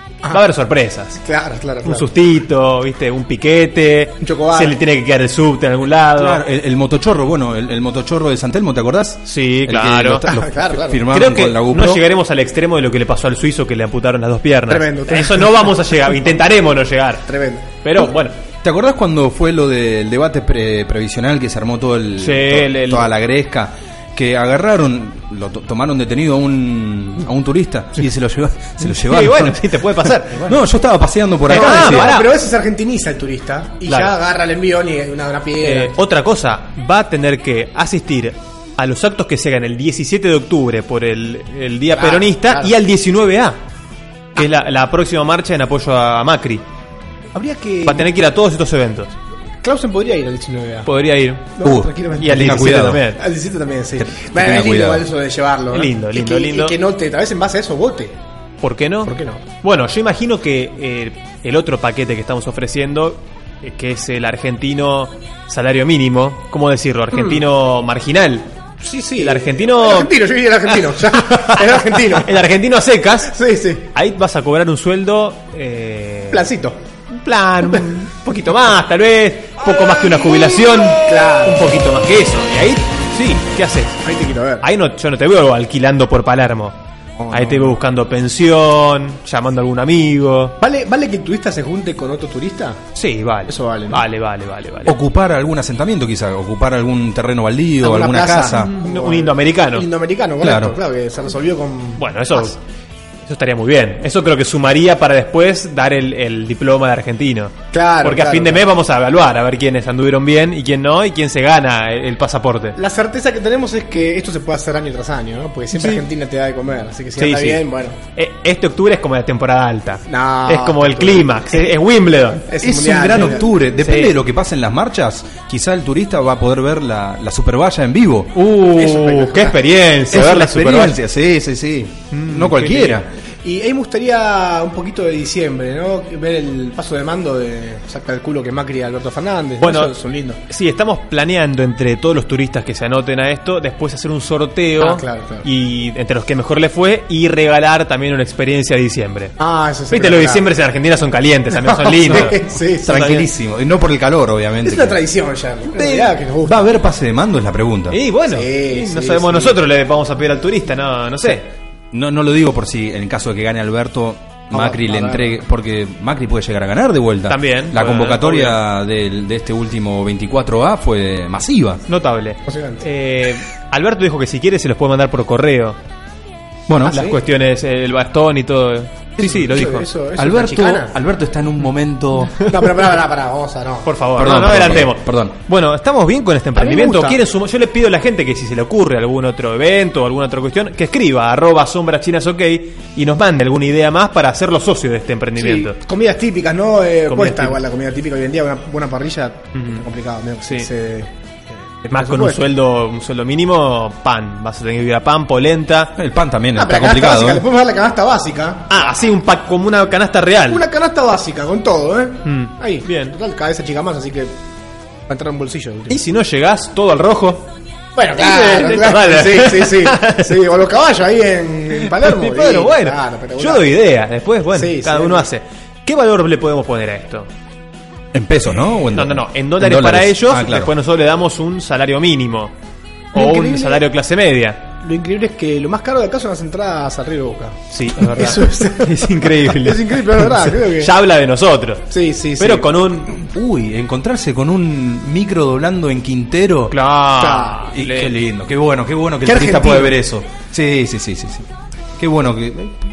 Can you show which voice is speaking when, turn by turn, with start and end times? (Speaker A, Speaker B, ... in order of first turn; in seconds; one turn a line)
Speaker A: 0.3-1.2
Speaker B: 1.2-2.1
Speaker A: 1.8-6.4
Speaker B: 4.2-4.8
Speaker C: 6.2-12.1
Speaker A: 9.2-10.2
Speaker B: 10.3-11.0
Speaker A: 11.1-18.4
Speaker B: 14.7-16.0
Speaker B: 17.3-17.7
Speaker C: 18.6-32.2
Speaker A: 22.2-23.1
Speaker A: 28.8-30.6
Speaker A: 31.5-32.3
Speaker B: 31.5-35.9
Speaker A: 33.9-34.1
Speaker A: 35.6-43.6
Speaker B: 41.9-42.7
Speaker A: 44.4-46.6
Speaker B: 47.3-48.1
Speaker A: 47.8-49.2
Speaker B: 49.6-50.9
Speaker A: 50.9-51.5
Speaker B: 51.6-58.1
Speaker C: 51.6-53.0
Speaker A: 52.2-53.2
Speaker C: 54.0-55.0
Speaker A: 55.7-56.8
Speaker A: 58.6-68.5
Speaker B: 59.0-59.4
Speaker B: 67.1-67.4
Speaker B: 68.8-72.4
Speaker A: 69.2-70.1
Speaker A: 70.7-73.3
Speaker B: 73.3-73.9
Speaker A: 73.9-76.5
Speaker B: 76.3-76.8
Speaker A: 77.1-84.0
Speaker B: 80.0-81.7
Speaker B: 84.0-84.6
Speaker A: 84.6-86.8
Speaker B: 87.2-87.8
Speaker A: 87.3-90.6
Speaker B: 90.6-92.8
Speaker A: 92.9-95.0
Speaker B: 93.5-94.0
Speaker C: 94.8-98.7
Speaker B: 97.8-102.5
Speaker A: 98.5-99.8
Speaker C: 100.4-100.8
Speaker A: 102.0-102.6
Speaker A: 103.2-112.7
Speaker B: 107.7-108.6
Speaker B: 112.7-118.0
Speaker A: 115.7-116.0
Speaker A: 117.2-117.6
Speaker A: 118.1-122.5
Speaker B: 120.1-121.7
Speaker B: 122.5-123.6
Speaker C: 122.6-128.3
Speaker A: 123.1-124.1
Speaker A: 128.3-131.0
Speaker B: 128.6-129.6
Speaker C: 130.1-133.1
Speaker A: 132.1-133.0
Speaker B: 133.4-140.4
Speaker A: 139.6-139.9
Speaker A: 140.4-149.3
Speaker B: 144.8-145.5
Speaker B: 149.4-150.4
Speaker A: 149.9-153.3
Speaker B: 151.5-153.1
Speaker C: 152.1-155.0
Speaker B: 154.6-156.7
Speaker A: 155.7-156.1
Speaker C: 156.4-158.0
Speaker A: 157.9-161.5
Speaker B: 158.3-159.6
Speaker C: 161.9-171.8
Speaker B: 164.5-165.3
Speaker A: 167.3-168.6
Speaker A: 171.9-175.8
Speaker B: 172.4-172.8
Speaker C: 176.7-177.0
Speaker B: 176.8-177.2
Speaker A: 176.8-179.9
Speaker B: 179.2-180.9
Speaker C: 180.2-182.4
Speaker B: 182.4-183.9
Speaker A: 183.8-195.7
Speaker C: 184.2-185.3
Speaker B: 186.5-187.2
Speaker B: 195.4-201.1
Speaker A: 197.1-197.6
Speaker A: 199.5-199.8
Speaker B: 201.8-202.5
Speaker A: 201.9-205.9
Speaker C: 205.9-207.4
Speaker B: 206.5-208.9
Speaker A: 208.7-210.6
Speaker B: 210.5-214.3
Speaker A: 212.2-213.1
Speaker B: 215.1-216.0
Speaker A: 215.9-217.5
Speaker B: 217.9-223.7
Speaker A: 218.2-220.4
Speaker A: 221.8-227.3
Speaker B: 224.5-225.3
Speaker C: 228.1-230.7
Speaker A: 228.9-232.5
Speaker B: 233.1-233.8
Speaker A: 233.1-234.7
Speaker B: 234.8-240.9
Speaker A: 237.7-243.1
Speaker B: 241.9-242.7
Speaker C: 243.2-246.8
Speaker A: 246.7-248.1
Speaker B: 247.2-247.6
Speaker C: 247.7-251.4
Speaker B: 249.2-250.0
Speaker C: 252.0-252.8